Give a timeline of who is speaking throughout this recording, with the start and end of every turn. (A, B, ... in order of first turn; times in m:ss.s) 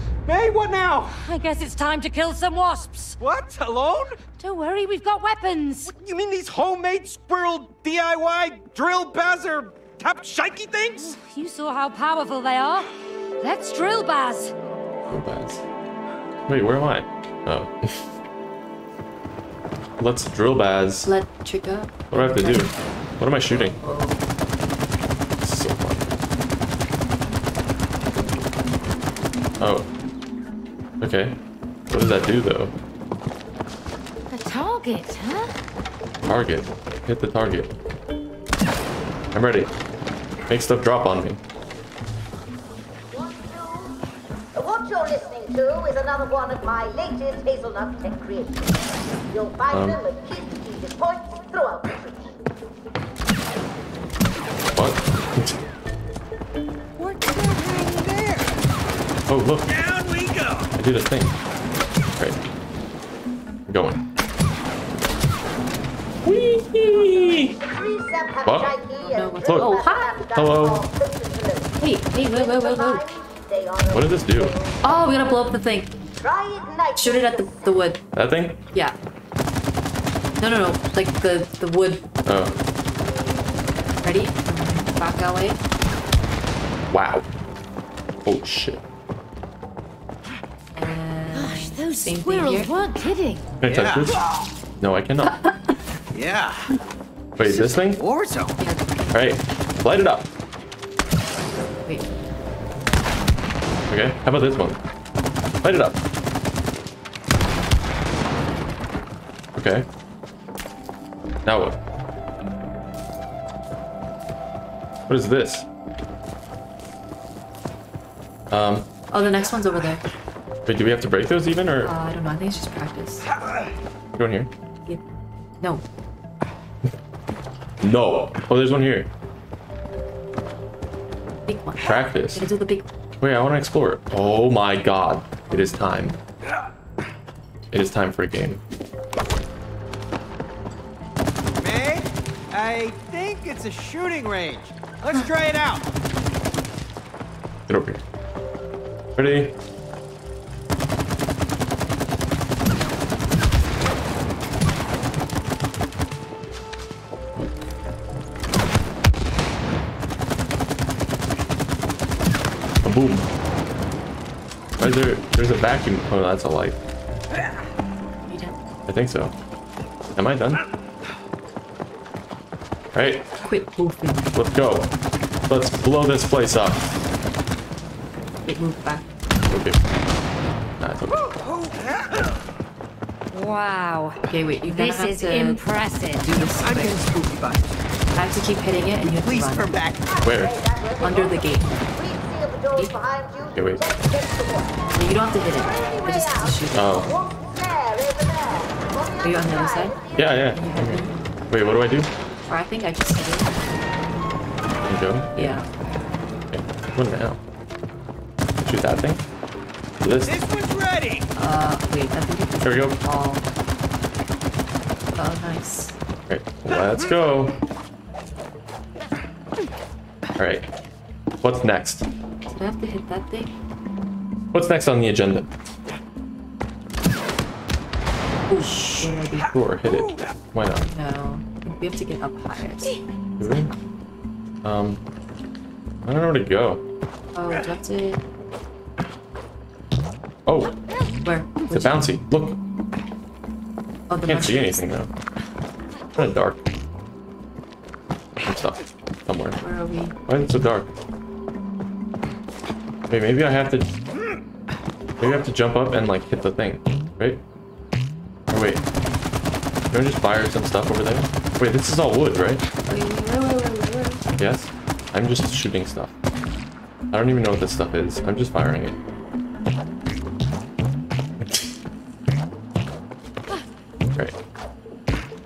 0:00.3-0:01.2 A
0:01.2-0:03.2 B
0:03.2-0:04.2 A
0:04.4-0:05.9 B
0:05.8-0:11.2 A
0:11.0-0:14.5 B
0:15.1-0:15.6 C
0:16.5-0:18.0 C
0:20.0-0:21.1 C
0:21.0-0:22.7 D
0:22.1-0:23.8 C
0:23.4-0:24.2 D
0:25.4-0:26.1 C
0:29.6-0:29.9 C
0:31.0-0:32.8 C
0:34.3-0:35.5 B
0:36.2-0:37.8 C
0:39.3-0:39.7 C
0:40.5-0:41.4 C
0:43.1-0:44.0 E
0:44.5-0:48.8 E
0:49.3-0:52.4 E
0:49.7-0:50.0 C
0:54.7-0:55.6 C
0:57.0-0:58.6 A
0:59.3-0:59.7 C
0:59.7-1:00.7 A
1:00.8-1:01.4 C
1:03.7-1:04.0 C
1:06.2-1:07.6 C
1:06.9-1:15.0 E
1:08.4-1:08.8 C
1:09.0-1:10.1 D
1:09.5-1:09.8 C
1:10.3-1:10.9 C
1:11.8-1:13.1 D
1:13.9-1:14.5 C
1:14.8-1:15.9 D
1:16.2-1:17.8 E
1:17.0-1:18.0 D
1:18.1-1:18.6 C
1:20.4-1:22.0 D
1:22.3-1:22.6 C
1:24.0-1:25.6 D
1:26.9-1:27.3 C
1:28.2-1:28.8 C
1:30.7-1:32.7 D
1:31.3-1:33.5 B
1:33.6-1:34.2 C
1:33.6-1:34.3 A
1:34.8-1:35.4 C
1:35.4-1:35.8 D
1:36.1-1:36.7 A
1:37.4-1:38.0 C
1:37.4-1:38.6 A
1:38.6-1:39.2 D
1:39.1-1:40.3 C
1:43.9-1:44.8 C
1:45.6-1:46.0 C
1:49.6-1:49.9 C
1:51.4-1:51.8 C
1:55.1-1:55.7 C
1:58.5-1:58.9 C
1:59.1-2:00.0 D
2:00.7-2:01.9 C
2:01.8-2:03.3 D
2:04.1-2:04.5 C
2:05.6-2:05.8 D
2:07.8-2:09.1 C
2:11.5-2:12.9 D
2:11.8-2:12.5 C
2:13.2-2:16.2 C
2:17.7-2:18.6 C
2:21.6-2:25.9 A
2:27.7-2:28.0 C
2:29.2-2:29.6 C
2:42.8-2:43.3 C
2:44.8-2:46.8 C
2:48.3-2:48.6 D
2:48.9-2:49.3 C
2:50.2-2:50.6 C
2:52.9-2:53.3 C
2:53.4-2:54.3 D
2:54.3-2:54.9 C
2:55.5-2:56.9 C
2:58.5-2:59.1 D
2:59.5-2:59.9 C
3:00.8-3:01.3 C
3:03.3-3:06.3 B
3:04.3-3:05.6 D
3:06.2-3:07.0 D
3:06.6-3:07.6 A
3:08.2-3:09.7 D
3:09.1-3:10.2 A
3:10.1-3:14.7 E
3:10.2-3:10.6 C
3:11.0-3:11.7 D
3:13.6-3:13.8 C
3:14.8-3:17.1 D
3:15.6-3:20.4 E
3:16.7-3:17.1 C
3:19.2-3:21.2 D
3:20.2-3:22.1 C
3:22.4-3:23.5 D
3:24.9-3:25.6 C
3:25.4-3:25.7 D
3:26.5-3:27.4 C
3:28.6-3:29.2 C
3:30.0-3:30.4 C
3:30.3-3:31.3 A
3:31.4-3:33.4 D
3:32.6-3:33.0 C
3:35.2-3:36.0 D
3:36.3-3:37.6 C
3:40.4-3:40.7 C
3:41.4-3:42.1 C
3:42.5-3:43.5 D
3:44.5-3:45.5 C
3:48.5-3:49.5 D
3:49.4-3:50.9 C
3:50.8-3:53.0 D
3:53.4-3:53.7 C
3:54.6-3:55.0 C
3:56.0-3:56.8 C
3:57.4-3:58.2 D
4:00.5-4:00.8 C
4:01.2-4:02.1 D
4:01.7-4:02.6 C
4:04.1-4:04.8 D
4:04.2-4:05.1 C
4:06.2-4:06.6 C
4:08.4-4:09.6 C
4:09.6-4:10.2 D
4:10.3-4:10.9 C
4:13.1-4:13.9 C
4:15.2-4:17.4 C
4:18.5-4:18.8 C
4:19.9-4:22.6 C
4:22.9-4:24.2 D
4:24.4-4:26.1 C
4:27.1-4:29.0 C